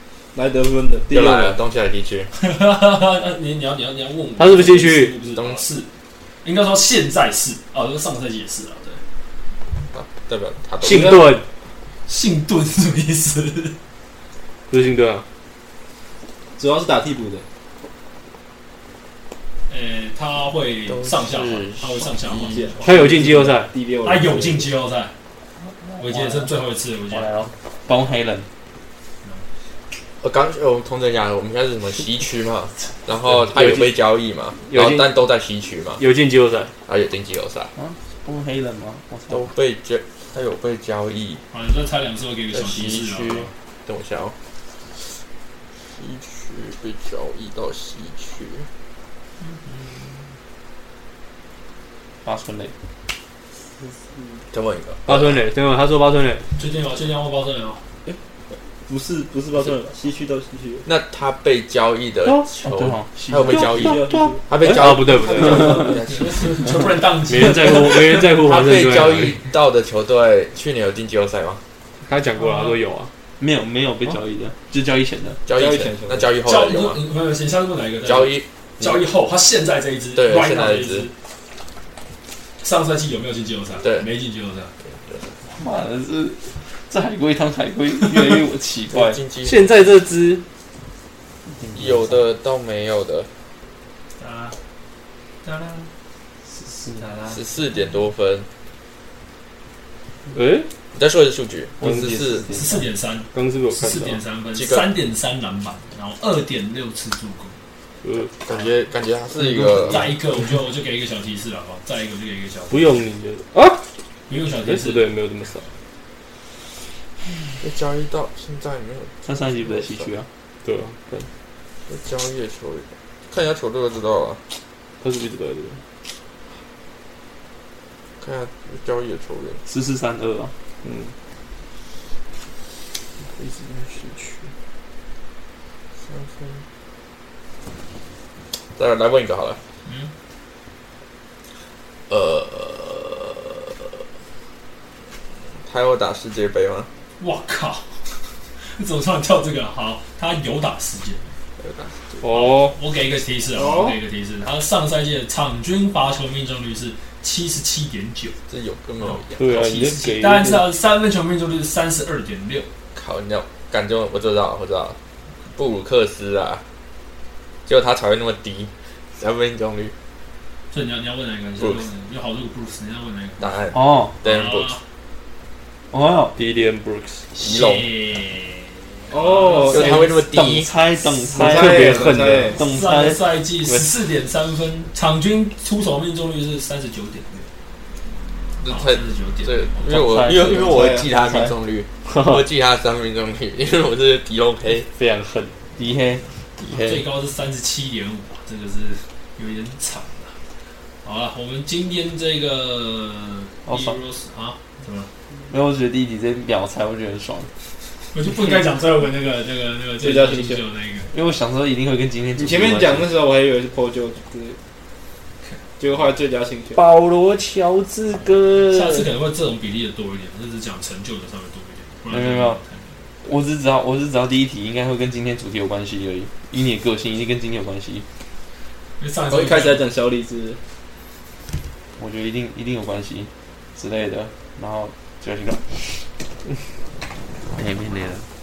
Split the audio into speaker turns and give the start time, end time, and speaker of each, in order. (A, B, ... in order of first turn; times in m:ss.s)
0:00.3-0:01.6 A
0:01.1-0:02.3 B
0:02.4-0:05.9 C
0:04.4-0:05.1 D
0:05.3-0:05.6 B
0:06.4-0:09.0 C
0:09.9-0:11.2 B
0:10.8-0:11.4 D
0:10.8-0:11.3 A
0:12.1-0:13.7 C
0:14.7-0:15.2 D
0:16.6-0:17.4 A
0:19.7-0:23.2 C
0:20.9-0:22.6 B
0:22.4-0:24.7 A
0:22.8-0:23.7 D
0:24.0-0:25.1 C
0:25.8-0:26.5 E
0:26.0-0:27.3 C
0:27.1-0:28.5 E
0:30.2-0:36.0 B
0:33.3-0:34.0 D
0:34.7-0:35.2 D
0:36.0-0:36.7 D
0:36.9-0:37.7 B
0:37.8-0:39.5 E
0:39.3-0:41.4 B
0:41.5-0:43.5 C
0:42.5-0:44.3 B
0:45.8-0:48.7 B
0:49.4-0:50.2 C
0:52.2-0:52.7 E
0:53.8-0:54.4 A
0:54.5-0:55.4 B
0:55.1-0:56.4 D
0:56.6-0:57.8 C
0:58.9-1:00.9 A
1:00.8-1:06.7 B
1:02.2-1:04.3 E
1:03.4-1:06.6 A
1:03.8-1:05.7 D
1:06.1-1:08.3 C
1:07.2-1:09.4 D
1:08.3-1:11.6 B
1:12.0-1:13.1 D
1:12.4-1:12.8 C
1:13.4-1:15.4 E
1:15.5-1:17.0 B
1:15.5-1:16.3 A
1:16.4-1:21.1 C
1:18.0-1:19.0 B
1:20.1-1:21.1 B
1:22.6-1:24.7 C
1:23.8-1:24.1 B
1:24.9-1:25.3 B
1:25.6-1:29.2 E
1:28.9-1:29.7 B
1:29.4-1:30.4 D
1:31.5-1:32.3 E
1:31.7-1:33.3 B
1:34.2-1:34.6 C
1:35.4-1:35.9 C
1:36.6-1:37.0 E
1:36.9-1:37.4 C
1:37.3-1:38.5 B
1:40.3-1:40.7 D
1:40.9-1:42.4 B
1:41.8-1:42.8 E
1:41.8-1:42.2 D
1:42.5-1:47.6 C
1:43.3-1:44.2 D
1:44.5-1:44.9 B
1:48.0-1:48.3 D
1:48.4-1:50.1 B
1:49.6-1:53.0 C
1:52.7-1:53.8 D
1:54.3-1:55.1 C
1:54.6-1:55.7 D
1:57.6-2:00.1 B
1:59.2-2:00.2 E
2:00.6-2:01.3 D
2:01.9-2:04.4 B
2:05.0-2:05.8 D
2:08.2-2:09.6 B
2:09.7-2:10.5 E
2:10.8-2:11.1 D
2:13.4-2:14.3 B
2:16.0-2:16.6 B
2:18.8-2:19.6 B
2:19.8-2:20.1 C
2:22.1-2:23.9 B
2:25.6-2:26.9 B
2:27.2-2:27.9 C
2:28.6-2:31.3 C
2:31.6-2:32.2 B
2:32.2-2:32.8 D
2:32.3-2:38.4 C
2:33.5-2:34.0 A
2:38.5-2:39.6 B
2:39.0-2:42.7 C
2:39.4-2:40.7 D
2:42.9-2:45.0 B
2:45.5-2:46.6 B
2:47.6-2:49.9 B
2:50.7-2:53.6 C
2:51.6-2:51.8 B
2:53.4-2:54.8 B
2:53.7-2:54.2 E
2:54.2-2:54.8 C
2:55.9-2:56.3 E
2:56.4-2:57.2 D
2:57.3-3:00.0 C
2:57.4-2:57.9 B
2:59.1-3:00.1 A
2:59.7-3:00.7 B
2:59.7-3:03.2 E
3:01.2-3:02.6 A
3:01.4-3:02.6 D
3:02.6-3:07.5 C
3:08.6-3:14.9 B
3:08.6-3:10.1 C
3:09.9-3:11.6 E
3:10.7-3:11.0 A
3:12.1-3:12.4 D
3:14.9-3:15.5 D
3:15.8-3:16.2 E
3:16.6-3:17.0 B
3:16.6-3:20.3 C
3:21.0-3:25.1 C
3:23.6-3:24.0 E
3:25.5-3:27.5 E
3:28.1-3:31.1 C
3:30.0-3:30.6 A
3:31.1-3:33.1 E
3:32.4-3:34.6 A
3:35.8-3:36.8 A
3:36.7-3:39.1 E
3:38.7-3:43.0 C
3:42.1-3:42.6 E
3:43.2-3:48.0 E
3:49.0-3:49.8 C
3:49.3-3:50.6 A
3:52.0-3:55.8 E
3:57.5-3:58.2 E